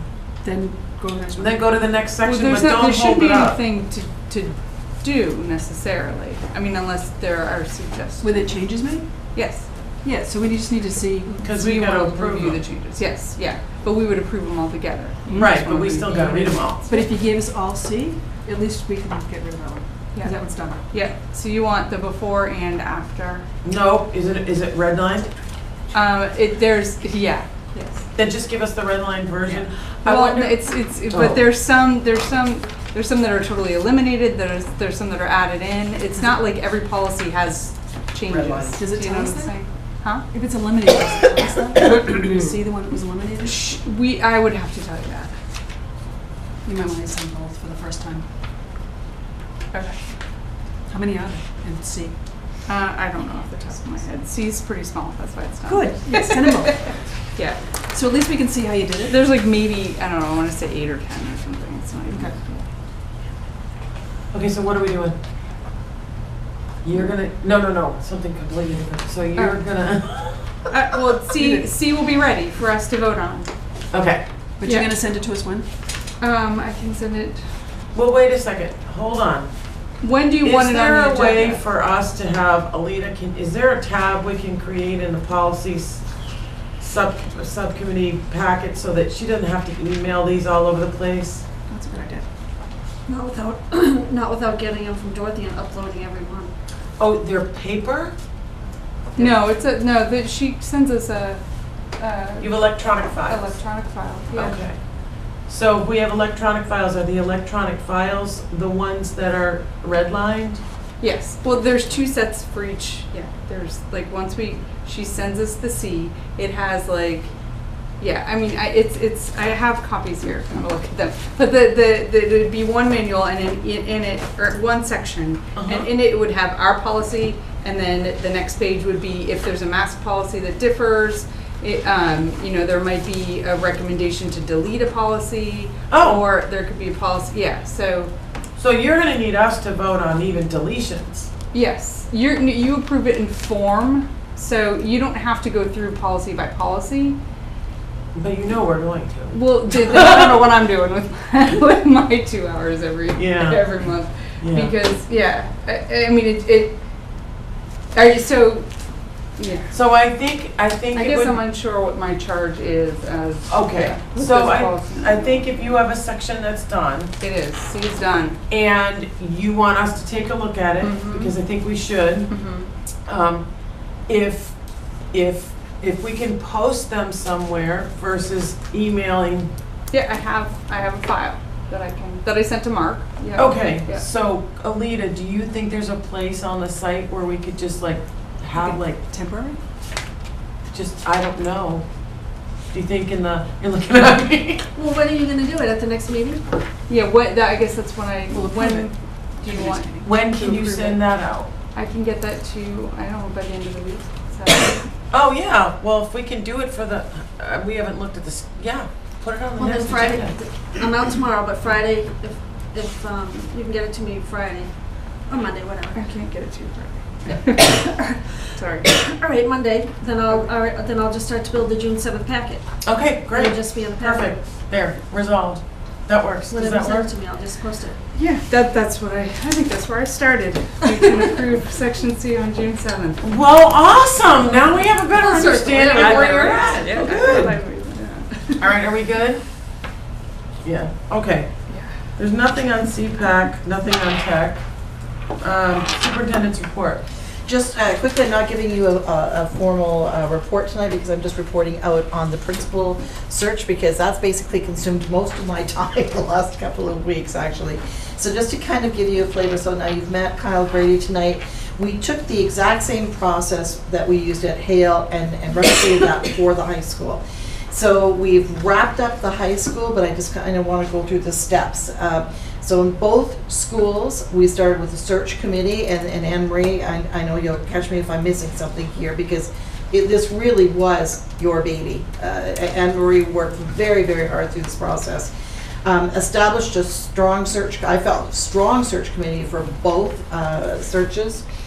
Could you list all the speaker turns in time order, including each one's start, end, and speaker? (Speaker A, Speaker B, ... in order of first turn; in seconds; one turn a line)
Speaker A: 0.4-1.7
Speaker B: 1.4-3.6
Speaker C: 2.2-8.4
Speaker A: 8.2-9.1
Speaker C: 9.3-9.7
Speaker A: 10.0-11.4
Speaker C: 11.2-17.1
Speaker B: 11.4-12.6
Speaker A: 15.2-15.5
Speaker B: 15.3-16.8
Speaker A: 16.9-20.8
Speaker C: 20.1-23.5
Speaker B: 23.6-25.3
Speaker C: 25.9-28.0
Speaker B: 28.1-31.5
Speaker C: 29.4-40.2
Speaker B: 38.3-38.8
Speaker A: 38.8-39.6
Speaker A: 40.1-43.8
Speaker C: 43.4-45.3
Speaker A: 46.6-48.2
Speaker C: 49.7-50.0
Speaker A: 50.9-52.2
Speaker C: 52.6-57.6
Speaker A: 55.6-57.0
Speaker A: 57.9-59.3
Speaker C: 59.1-62.6
Speaker A: 62.1-62.4
Speaker B: 64.3-65.2
Speaker B: 66.8-70.7
Speaker C: 69.3-69.6
Speaker C: 70.7-73.5
Speaker A: 71.4-71.7
Speaker B: 73.9-74.2
Speaker A: 74.6-75.7
Speaker C: 74.6-75.0
Speaker C: 76.2-77.6
Speaker B: 77.9-79.5
Speaker C: 80.0-81.6
Speaker B: 80.4-86.0
Speaker B: 86.8-91.4
Speaker A: 91.7-92.2
Speaker D: 93.1-96.5
Speaker B: 97.0-98.1
Speaker C: 99.2-101.4
Speaker C: 102.0-104.6
Speaker B: 102.4-103.6
Speaker B: 104.3-104.8
Speaker B: 105.4-110.6
Speaker C: 111.0-117.3
Speaker C: 118.0-138.1
Speaker B: 125.5-125.9
Speaker B: 135.9-136.2
Speaker B: 138.6-141.3
Speaker C: 141.5-147.2
Speaker B: 148.1-150.3
Speaker C: 149.3-156.8
Speaker B: 153.1-154.7
Speaker C: 157.9-158.7
Speaker C: 159.4-159.7
Speaker B: 159.7-161.4
Speaker C: 160.9-165.8
Speaker B: 163.5-167.1
Speaker C: 167.2-168.4
Speaker B: 168.5-172.3
Speaker C: 170.8-171.3
Speaker C: 172.3-172.7
Speaker B: 173.1-173.4
Speaker B: 174.1-174.5
Speaker B: 175.1-179.5
Speaker C: 179.9-184.1
Speaker B: 183.3-189.0
Speaker A: 188.5-189.6
Speaker B: 190.7-191.8
Speaker B: 192.7-194.7
Speaker D: 194.7-196.4
Speaker C: 196.9-201.1
Speaker A: 198.3-200.0
Speaker B: 200.0-201.5
Speaker C: 201.7-204.9
Speaker B: 205.1-211.0
Speaker D: 209.6-216.1
Speaker C: 215.9-219.0
Speaker D: 218.9-224.4
Speaker B: 222.8-227.1
Speaker D: 226.5-228.0
Speaker C: 228.1-233.2
Speaker B: 233.2-237.5
Speaker C: 235.2-238.7
Speaker D: 235.8-236.2
Speaker B: 238.6-239.4
Speaker B: 240.6-241.5
Speaker C: 241.7-242.0
Speaker B: 242.2-244.6
Speaker B: 245.4-247.0
Speaker E: 247.4-285.3
Speaker E: 285.8-291.4